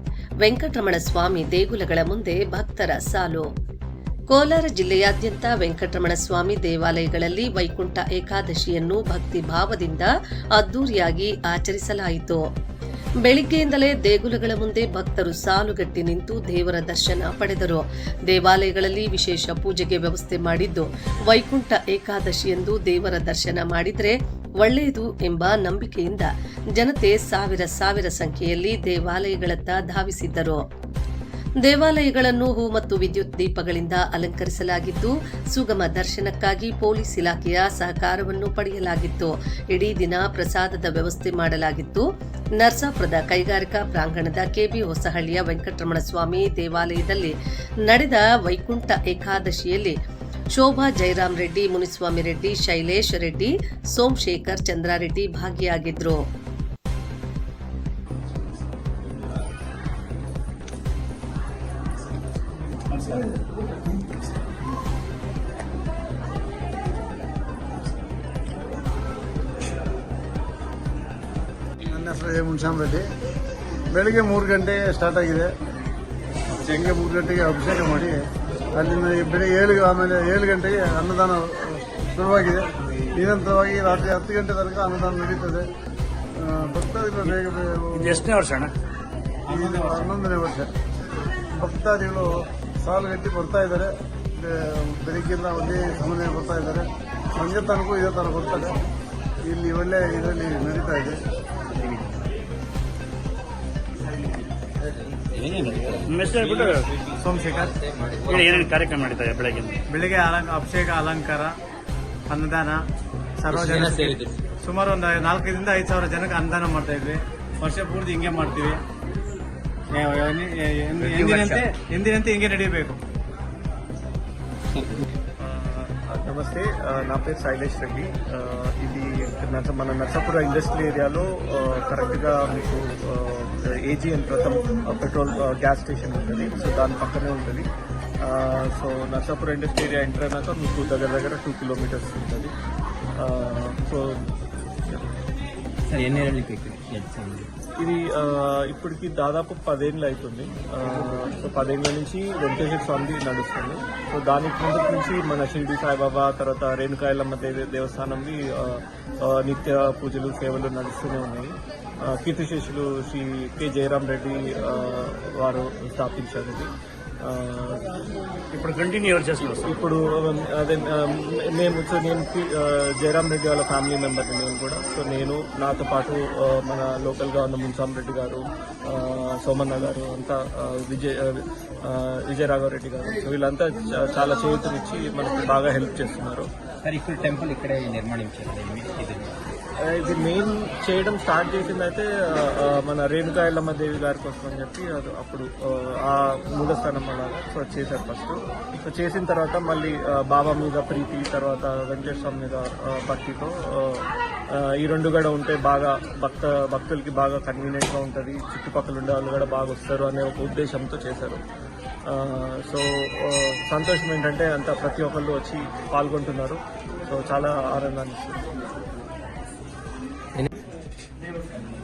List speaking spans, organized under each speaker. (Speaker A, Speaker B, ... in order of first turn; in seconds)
Speaker A: 0.4-3.5, 4.3-12.4, 13.2-30.6, 31.6-42.0, 42.6-47.4, 47.9-50.0, 50.5-56.2
Speaker B: 71.8-73.0, 73.9-75.5, 76.5-78.2, 78.7-85.7, 86.4-88.2, 89.5-90.7, 91.5-98.8, 99.5-101.2
Speaker C: 88.0-88.7, 105.6-106.9, 108.3-109.8, 168.5-169.8
Speaker D: 89.5-90.1, 106.4-108.7, 109.9-111.5, 112.3-112.8, 113.4-118.8, 119.9-123.0
Speaker E: 105.2-106.3, 107.6-108.5, 113.5-114.4, 121.0-121.6, 124.8-125.0, 145.9-147.5, 186.8-189.4
Speaker F: 125.4-137.7, 138.2-142.5, 143.2-144.2, 147.8-161.5, 162.1-166.7, 167.2-167.9, 169.4-186.5, 189.8-211.4, 212.1-218.5